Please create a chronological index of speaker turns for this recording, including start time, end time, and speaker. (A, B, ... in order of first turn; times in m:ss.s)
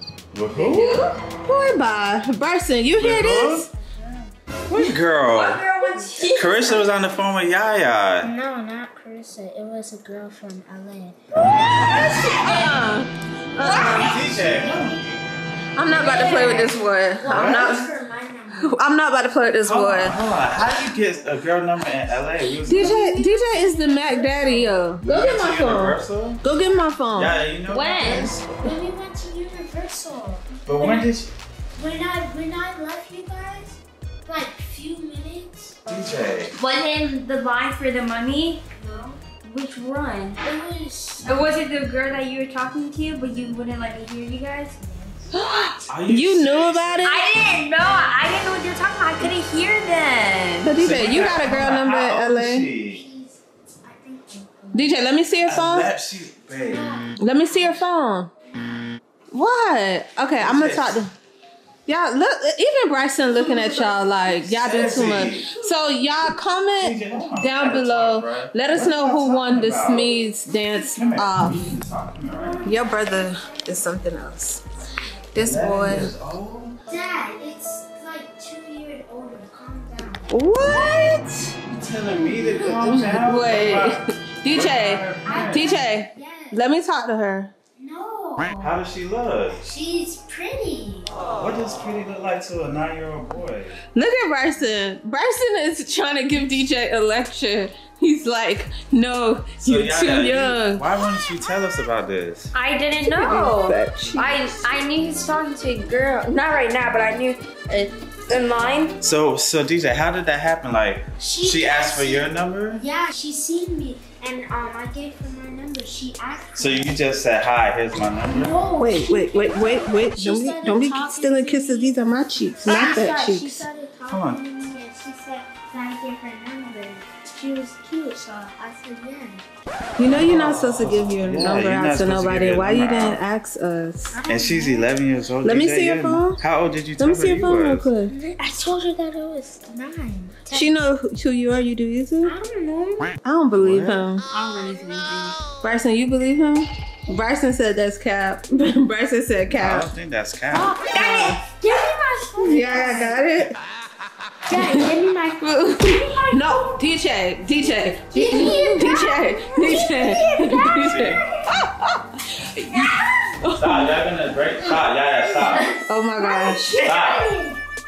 0:00.3-0:01.1 A
0:00.5-0:01.2 B
0:01.4-0:03.7 C
0:03.0-0:03.7 A
0:03.7-0:04.3 D
0:04.7-0:05.6 A
0:05.3-0:06.8 B
0:06.3-0:08.3 A
0:08.2-0:12.8 D
0:11.7-0:14.2 C
0:13.5-0:15.0 D
0:13.6-0:15.3 A
0:13.7-0:14.1 B
0:15.8-0:17.9 C
0:15.9-0:18.8 D
0:16.0-0:16.7 B
0:17.2-0:17.9 A
0:18.6-0:20.2 C
0:19.6-0:23.0 A
0:22.6-0:27.4 C
0:22.7-0:24.9 D
0:25.0-0:26.4 A
0:27.1-0:28.5 A
0:27.7-0:28.3 B
0:28.6-0:31.1 D
0:30.6-0:31.3 A
0:31.8-0:36.4 D
0:35.9-0:36.5 A
0:36.6-0:38.6 B
0:38.7-0:39.2 D
0:39.4-0:40.4 B
0:40.4-0:41.5 D
0:41.2-0:45.2 B
0:45.3-0:47.2 C
0:45.9-0:47.1 A
0:47.0-0:50.7 B
0:50.6-0:52.7 C
0:50.7-0:53.0 A
0:52.7-0:55.3 D
0:54.7-0:55.9 C
0:55.4-0:57.0 A
0:56.6-0:57.2 D
0:57.2-0:58.3 C
0:59.3-1:01.1 C
1:00.4-1:01.0 A
1:01.9-1:11.7 C
1:04.4-1:05.5 A
1:06.8-1:10.2 A
1:10.7-1:12.9 A
1:12.6-1:14.6 C
1:13.2-1:13.6 D
1:15.3-1:16.1 C
1:15.3-1:16.8 A
1:16.9-1:20.4 D
1:20.3-1:21.5 C
1:21.7-1:25.8 A
1:22.1-1:22.5 D
1:22.6-1:27.5 C
1:25.2-1:26.6 D
1:27.8-1:28.8 D
1:28.6-1:29.6 A
1:29.6-1:31.2 D
1:31.4-1:33.8 A
1:33.9-1:40.8 C
1:39.6-1:42.5 A
1:42.5-1:49.0 B
1:43.0-1:44.5 C
1:49.0-1:52.8 A
1:51.2-1:57.0 D
1:56.6-1:58.5 A
1:58.3-2:02.1 D
1:58.8-2:03.6 C
2:02.6-2:09.4 D
2:04.1-2:04.4 A
2:10.0-2:14.2 C
2:10.0-2:13.2 A
2:14.1-2:14.9 D
2:14.3-2:17.9 A
2:15.4-2:16.4 C
2:17.0-2:18.1 C
2:18.1-2:20.8 D
2:20.5-2:22.3 C
2:22.2-2:23.2 D
2:23.2-2:24.2 C
2:23.6-2:24.0 A
2:24.3-2:25.4 B
2:24.4-2:24.9 D
2:25.6-2:29.9 C
2:29.5-2:30.8 A
2:30.5-2:33.2 D
2:30.9-2:31.4 C
2:32.4-2:33.6 C
2:34.5-2:36.4 D
2:34.5-2:34.8 C
2:35.4-2:44.0 C
2:38.1-2:41.0 D
2:40.5-2:41.6 A
2:43.6-2:45.7 A
2:45.4-2:47.6 D
2:45.9-2:46.7 C
2:46.7-2:47.4 B
2:46.8-2:47.3 A